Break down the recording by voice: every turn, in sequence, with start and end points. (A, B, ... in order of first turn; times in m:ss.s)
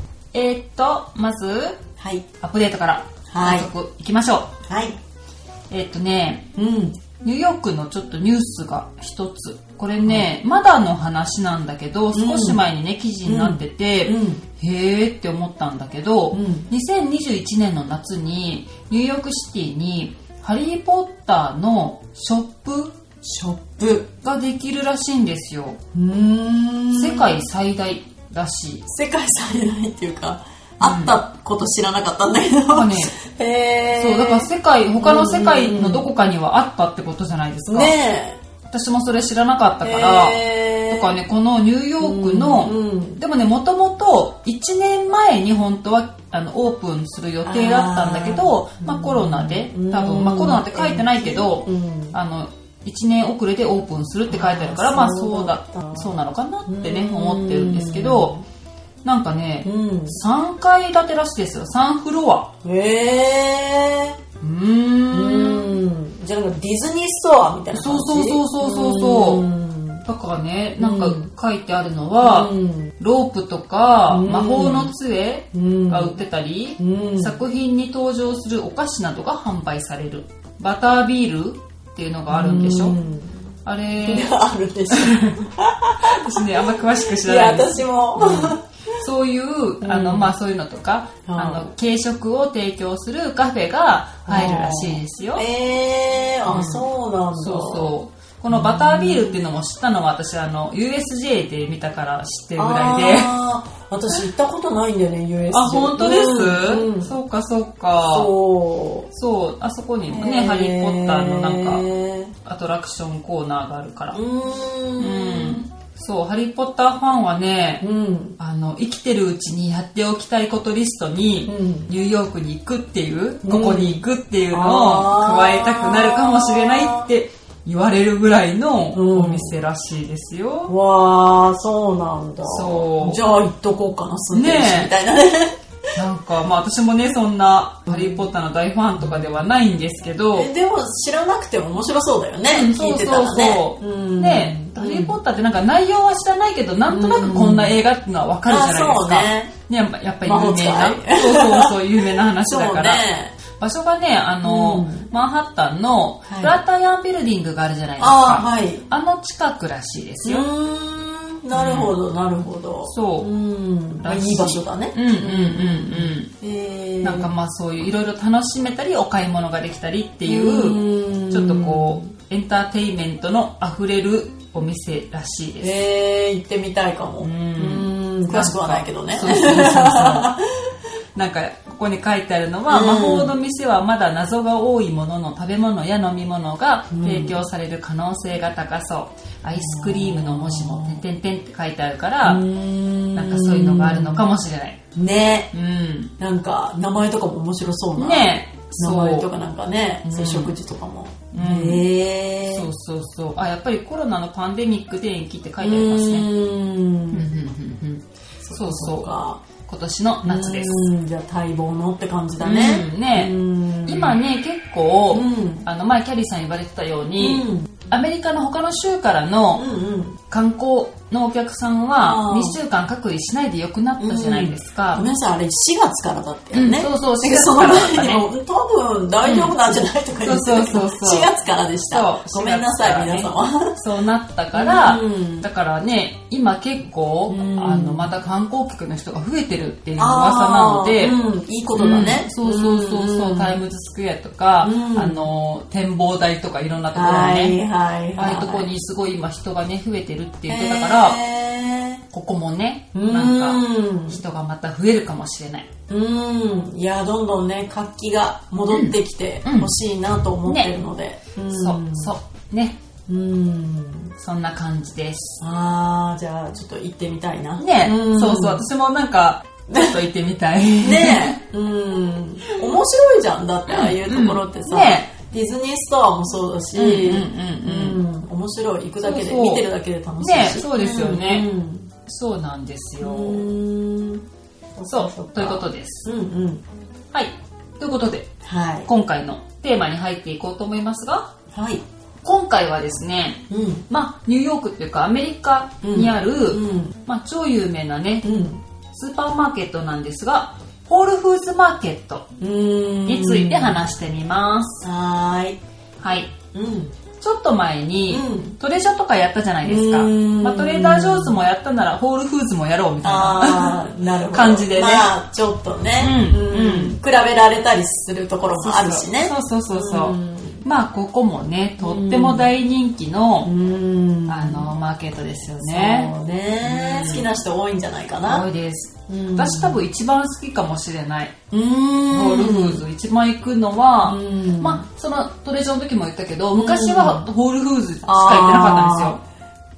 0:00.3-0:01.8 A
0:02.0-0:02.2 B
0:02.4-0:04.5 A
0:03.3-0:03.7 B
0:04.7-0:05.0 B
0:05.7-0:06.5 A
0:06.6-0:07.0 B
0:07.2-0:23.2 A
0:12.1-0:12.6 B
0:13.2-0:14.4 B
0:16.3-0:16.7 B
0:23.3-0:24.1 B
0:24.2-0:25.8 A
0:25.9-0:27.3 B
0:26.9-0:28.8 A
0:28.9-0:36.1 B
0:30.8-0:31.1 A
0:32.7-0:33.1 A
0:34.0-0:38.0 A
0:37.7-0:38.4 B
0:38.7-0:58.3 A
0:39.8-0:41.2 B
0:42.0-0:43.2 B
0:47.4-0:52.2 B
0:54.3-0:56.1 B
0:56.6-0:58.4 B
0:59.0-1:02.5 A
0:59.6-1:00.2 B
1:02.6-1:04.2 B
1:04.4-1:05.7 A
1:05.1-1:10.0 B
1:07.7-1:09.4 A
1:10.0-1:23.0 A
1:10.8-1:11.3 B
1:12.2-1:12.9 B
1:14.1-1:14.9 B
1:15.5-1:16.2 B
1:16.8-1:17.4 B
1:22.3-1:23.4 B
1:23.6-1:24.3 A
1:24.0-1:28.6 B
1:24.9-1:25.4 A
1:26.0-1:35.4 A
1:29.8-1:30.3 B
1:31.3-1:31.7 B
1:34.3-1:37.9 B
1:36.5-1:43.3 A
1:38.5-1:39.4 B
1:42.6-1:47.1 B
1:45.5-1:48.3 A
1:48.0-1:49.1 B
1:49.1-1:51.8 A
1:50.1-1:52.3 B
1:52.4-1:54.2 A
1:54.1-1:55.6 B
1:55.0-1:57.8 A
1:57.8-1:58.4 B
1:58.4-2:10.7 A
2:01.4-2:01.9 B
2:03.4-2:07.1 B
2:08.9-2:09.6 B
2:10.7-2:15.6 B
2:12.4-2:13.2 A
2:14.3-2:14.9 A
2:16.0-2:20.5 A
2:17.9-2:18.3 B
2:20.3-2:25.2 B
2:22.5-2:40.5 A
2:26.9-2:27.7 B
2:28.4-2:29.5 B
2:30.2-2:33.4 B
2:34.4-2:35.1 B
2:36.2-2:36.6 B
2:38.0-2:38.8 B
2:40.2-2:47.3 B
2:41.5-2:41.9 A
2:42.9-2:43.3 A
2:44.0-2:46.3 A
2:47.0-2:55.8 A
2:50.2-2:52.1 B
2:55.6-3:00.4 B
2:57.2-3:00.3 A
3:01.1-3:12.4 A
3:02.7-3:03.3 B
3:06.9-3:07.4 B
3:09.5-3:11.0 B
3:12.2-3:14.3 B
3:13.1-3:14.8 A
3:14.9-3:15.5 B
3:15.5-3:16.1 A
3:16.2-3:22.7 B
3:18.0-3:19.3 A
3:20.0-3:20.5 A
3:21.3-3:21.8 A
3:22.5-3:26.3 A
3:25.6-3:27.3 B
3:27.1-3:30.8 A
3:28.4-3:29.4 B
3:30.2-3:34.2 B
3:32.4-3:33.3 A
3:33.8-3:39.6 A
3:35.1-3:35.7 B
3:37.2-3:37.7 B
3:39.5-3:40.2 B
3:40.3-3:45.0 A
3:42.0-3:42.6 B
3:44.0-3:53.8 B
3:46.5-3:48.2 A
3:49.2-3:49.5 A
3:50.2-3:51.3 A
3:51.9-4:01.2 A
3:54.5-3:55.4 B
3:57.3-3:58.1 B
4:00.0-4:03.6 B
4:01.8-4:07.6 A
4:04.6-4:05.2 B
4:06.9-4:08.7 B
4:08.2-4:11.2 A
4:10.5-4:12.0 B
4:12.1-4:15.7 A
4:12.9-4:14.2 B
4:15.9-4:22.1 B
4:18.7-4:19.7 A
4:20.4-4:20.7 A
4:21.5-4:22.8 A
4:23.1-4:24.1 B
4:24.2-4:25.4 A
4:25.4-4:28.6 B
4:27.6-4:31.4 A
4:29.7-4:29.9 B
4:30.8-4:41.9 B
4:33.7-4:35.1 A
4:36.7-4:38.0 A
4:39.0-4:39.6 A
4:40.2-4:41.5 A
4:42.0-4:43.4 A
4:43.0-4:44.2 B
4:44.8-4:46.6 B
4:44.9-4:46.1 A
4:47.1-4:48.3 A
4:48.4-4:48.9 B
4:48.8-4:51.3 A
4:51.5-4:51.8 B
4:52.2-4:58.2 A
4:53.5-4:53.8 B
4:55.8-4:57.0 B
4:58.2-4:58.6 B
4:58.9-5:02.3 A
5:02.4-5:03.8 B
5:03.0-5:04.8 A
5:04.8-5:05.6 B
5:06.0-5:06.3 A
5:06.5-5:06.9 B
5:07.2-5:15.1 A
5:08.1-5:08.6 B
5:09.6-5:11.4 B
5:13.0-5:20.6 B
5:16.0-5:17.0 A
5:18.6-5:23.5 A
5:21.8-5:22.5 B
5:23.4-5:24.6 B
5:24.2-5:26.1 A
5:25.6-5:28.4 B
5:26.6-5:27.3 A
5:28.2-5:31.3 A
5:29.1-5:29.8 B
5:31.5-5:32.8 B
5:32.1-5:39.2 A
5:34.0-5:34.8 B
5:36.5-5:37.3 B
5:38.0-5:39.2 B